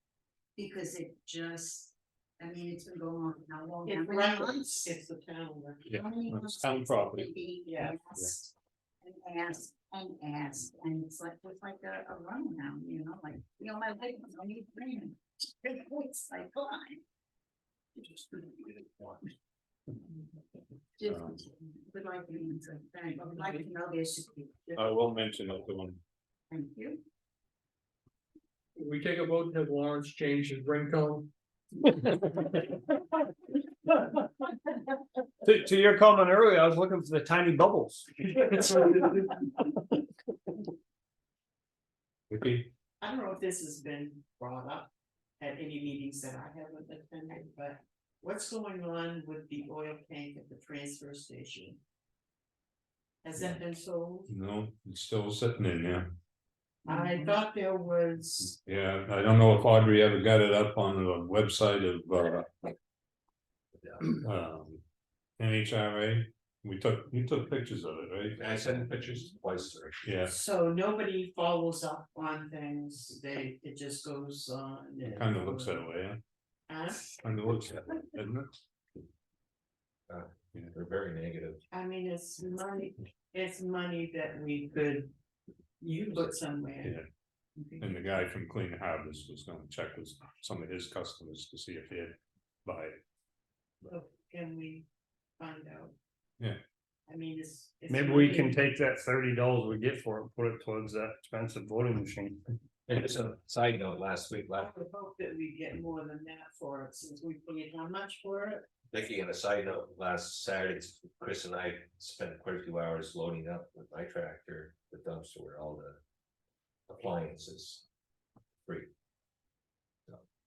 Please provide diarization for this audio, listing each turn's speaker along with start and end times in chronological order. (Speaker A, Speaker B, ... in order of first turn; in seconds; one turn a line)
Speaker A: 0.6-4.9
Speaker B: 3.9-5.8
Speaker C: 5.8-7.3
Speaker A: 5.9-17.0
Speaker B: 7.7-7.9
Speaker A: 18.0-19.1
Speaker A: 21.0-24.9
Speaker C: 21.0-21.4
Speaker C: 24.8-26.0
Speaker A: 26.5-27.0
Speaker D: 28.8-31.3
Speaker E: 35.4-38.5
Speaker D: 38.4-39.4
Speaker C: 42.3-42.7
Speaker B: 43.0-51.8
Speaker B: 53.2-54.3
Speaker C: 54.3-56.1
Speaker A: 56.9-57.3
Speaker B: 56.9-58.6
Speaker C: 58.6-62.6
Speaker C: 64.1-64.8
Speaker C: 65.4-68.5
Speaker F: 68.4-70.0
Speaker C: 70.0-70.3
Speaker B: 70.2-75.9
Speaker C: 75.0-76.2
Speaker B: 76.7-77.4
Speaker C: 77.2-78.5
Speaker F: 80.1-81.6
Speaker B: 81.7-85.1
Speaker B: 85.8-87.0
Speaker B: 87.6-87.9
Speaker C: 87.8-93.0
Speaker B: 93.8-94.9
Speaker B: 95.4-96.0
Speaker B: 97.1-98.7
Speaker E: 97.9-102.4
Speaker F: 102.9-104.7
Speaker B: 104.6-108.7
Speaker F: 108.9-116.0
Speaker F: 116.9-117.8